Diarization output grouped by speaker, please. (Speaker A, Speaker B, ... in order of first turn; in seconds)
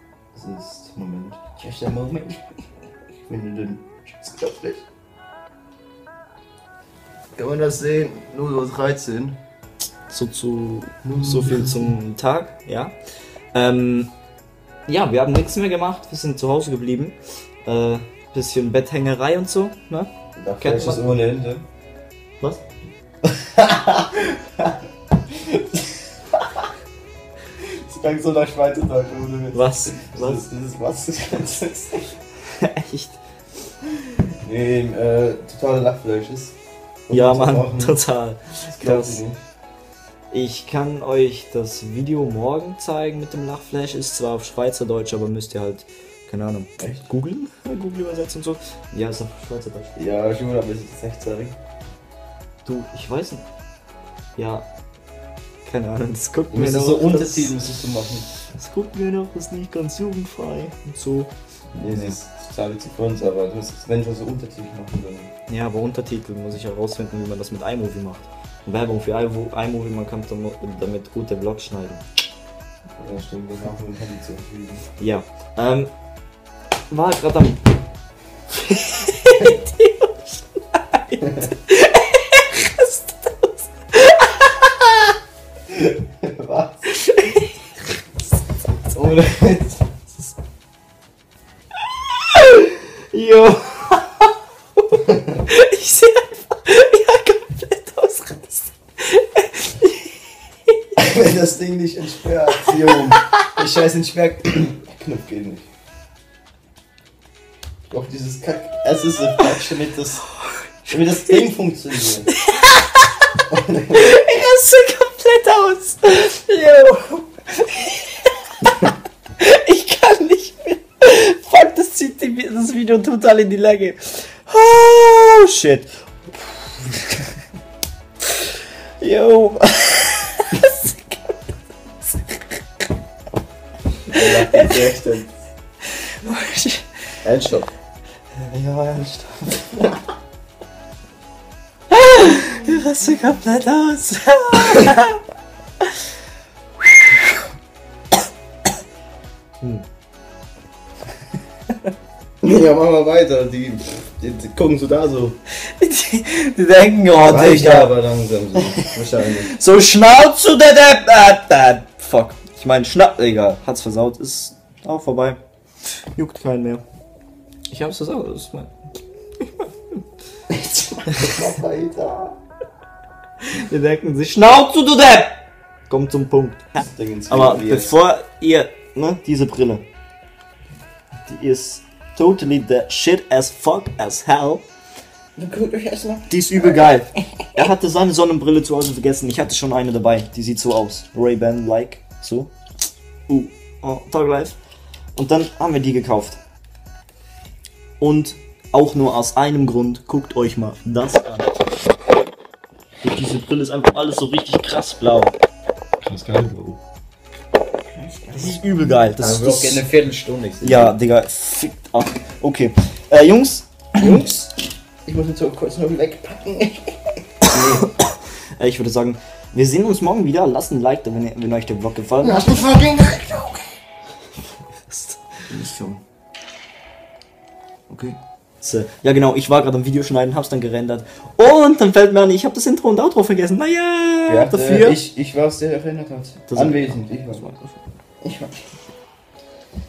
Speaker A: 0.3-2.7, 3.2-4.8, 7.3-9.4, 11.0-11.9, 20.4-21.6, 23.2-24.8, 25.3-26.7, 27.6-32.2, 34.1-36.5, 37.1-38.0, 38.7-39.4, 46.8-47.0, 50.0-51.6, 56.5-58.3, 61.8-65.3, 73.0-74.8, 85.7-86.9, 88.9-89.8, 101.0-105.7, 107.9-110.3, 110.9-112.3, 113.5-114.1, 134.1-135.3, 137.2-137.7, 152.4-155.4, 157.2-159.5, 170.5-172.4, 176.8-177.9, 185.4-186.7, 206.0-206.8, 207.8-210.9, 214.0-214.5, 215.1-217.9, 222.2-223.8, 234.3-237.4, 238.2-238.6
Speaker B: 10.1-13.0, 13.5-14.1, 14.9-21.2, 29.5-30.4, 32.5-33.2, 37.1-39.2, 40.3-50.0, 52.6-53.5, 54.4-54.7, 55.6-57.5, 58.4-61.3, 61.9-62.1, 65.5-72.0, 75.0-75.9, 76.9-77.6, 78.5-85.1, 86.9-87.5, 92.1-100.2, 100.7-100.9, 102.6-103.8, 110.4-111.4, 112.3-113.4, 113.9-118.9, 119.4-127.2, 128.3-131.4, 132.0-132.5, 134.1-135.0, 135.8-137.2, 138.4-140.0, 141.9-145.2, 149.6-149.9, 155.6-157.9, 158.6-158.9, 159.5-165.4, 166.1-166.8, 167.7-168.8, 169.4-169.7, 171.1-171.5, 173.4-179.8, 181.2-184.7, 186.3-192.5, 193.3-194.6, 195.2-196.4, 198.0-201.6, 203.0-205.3, 208.3-209.9, 210.6-214.2, 217.8-222.7, 224.9-226.0, 227.9-235.0, 236.5-237.8